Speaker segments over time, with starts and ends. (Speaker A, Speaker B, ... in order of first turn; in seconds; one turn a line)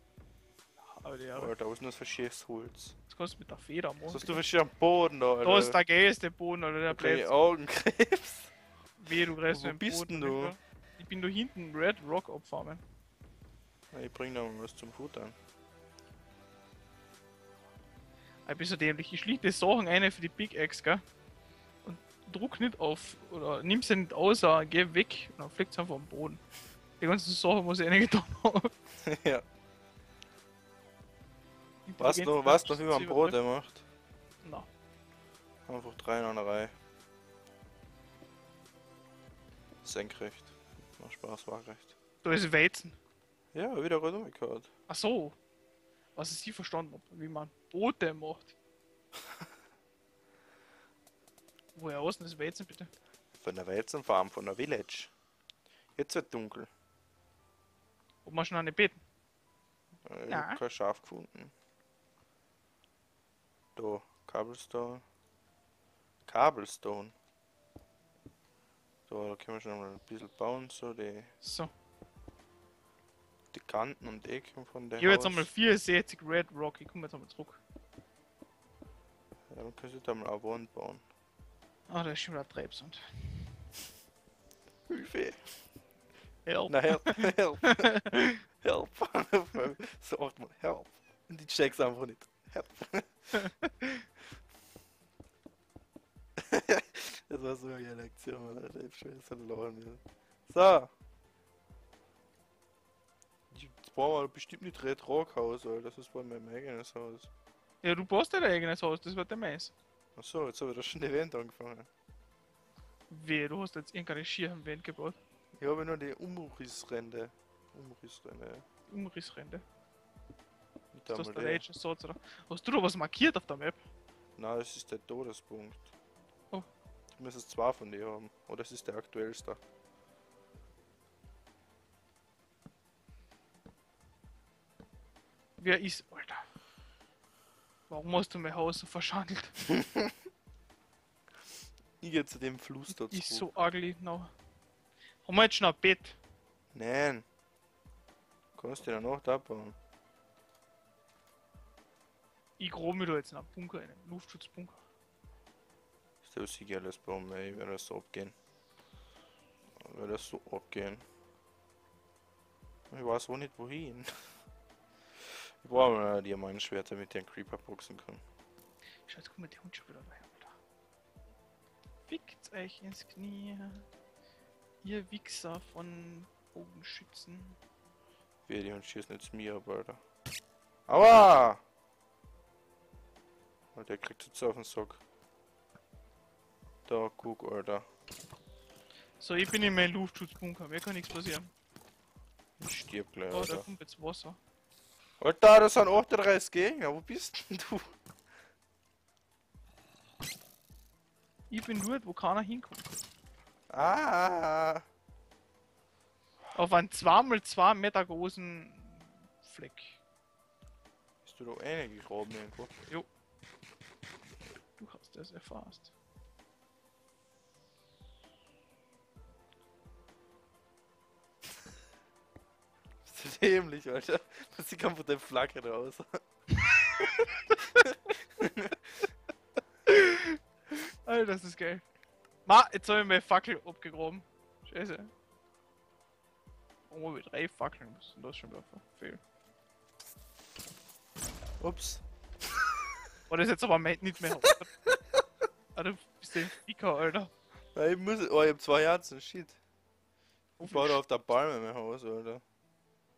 Speaker A: 0.8-1.5
Speaker B: 1.3-2.9
Speaker A: 3.1-4.4
Speaker B: 4.1-5.8
Speaker A: 5.4-7.3
Speaker B: 6.9-8.5
Speaker A: 9.0-12.8
Speaker B: 9.5-10.5
Speaker B: 13.9-15.3
Speaker A: 18.4-21.0
Speaker A: 21.8-26.4
Speaker A: 27.0-28.7
Speaker B: 29.0-29.4
Speaker A: 31.9-33.4
Speaker B: 32.0-33.8
Speaker A: 34.4-34.7
Speaker B: 35.7-36.7
Speaker B: 39.8-41.9
Speaker A: 42.2-43.0
Speaker B: 43.5-44.7
Speaker A: 44.9-45.4
Speaker A: 46.1-48.5
Speaker A: 51.7-52.9
Speaker B: 53.4-55.1
Speaker B: 56.0-56.7
Speaker A: 58.2-59.0
Speaker B: 60.0-61.5
Speaker A: 60.3-60.6
Speaker B: 63.8-65.0
Speaker B: 66.2-67.1
Speaker B: 69.1-71.3
Speaker A: 71.4-71.7
Speaker B: 73.5-75.5
Speaker A: 75.0-77.6
Speaker B: 79.5-81.0
Speaker A: 81.9-83.6
Speaker B: 84.9-85.6
Speaker A: 86.4-87.8
Speaker B: 86.7-93.5
Speaker A: 93.5-93.9
Speaker B: 96.4-100.9
Speaker B: 103.5-107.3
Speaker A: 107.8-109.7
Speaker B: 110.2-111.9
Speaker A: 113.1-115.2
Speaker B: 115.6-118.6
Speaker A: 118.9-119.6
Speaker B: 120.9-121.6
Speaker A: 121.1-123.8
Speaker B: 124.4-125.9
Speaker B: 127.1-129.6
Speaker A: 135.6-136.5
Speaker A: 137.9-139.6
Speaker B: 142.0-143.5
Speaker A: 142.9-144.3
Speaker A: 145.2-146.2
Speaker B: 146.7-147.2
Speaker B: 148.6-149.8
Speaker A: 152.6-154.8
Speaker B: 156.2-158.3
Speaker B: 159.8-161.0
Speaker B: 162.9-164.1
Speaker B: 165.2-168.2
Speaker A: 169.1-170.6
Speaker A: 172.1-173.8
Speaker A: 174.8-177.6
Speaker B: 178.5-180.0
Speaker B: 180.9-181.6
Speaker B: 183.7-185.0
Speaker B: 186.8-187.8
Speaker A: 189.2-191.5
Speaker B: 192.6-193.7
Speaker A: 193.3-194.4
Speaker B: 195.2-197.9
Speaker A: 201.5-202.9
Speaker B: 203.7-204.8
Speaker A: 206.5-210.0
Speaker B: 211.2-212.7
Speaker A: 214.8-215.9
Speaker B: 223.0-227.3
Speaker B: 228.4-228.7
Speaker A: 229.9-230.4
Speaker A: 231.0-231.8
Speaker A: 232.4-235.1
Speaker A: 236.9-239.2
Speaker B: 241.6-242.0
Speaker A: 243.3-244.7
Speaker A: 245.7-247.3
Speaker B: 247.7-249.6
Speaker A: 250.6-251.0
Speaker B: 250.6-252.4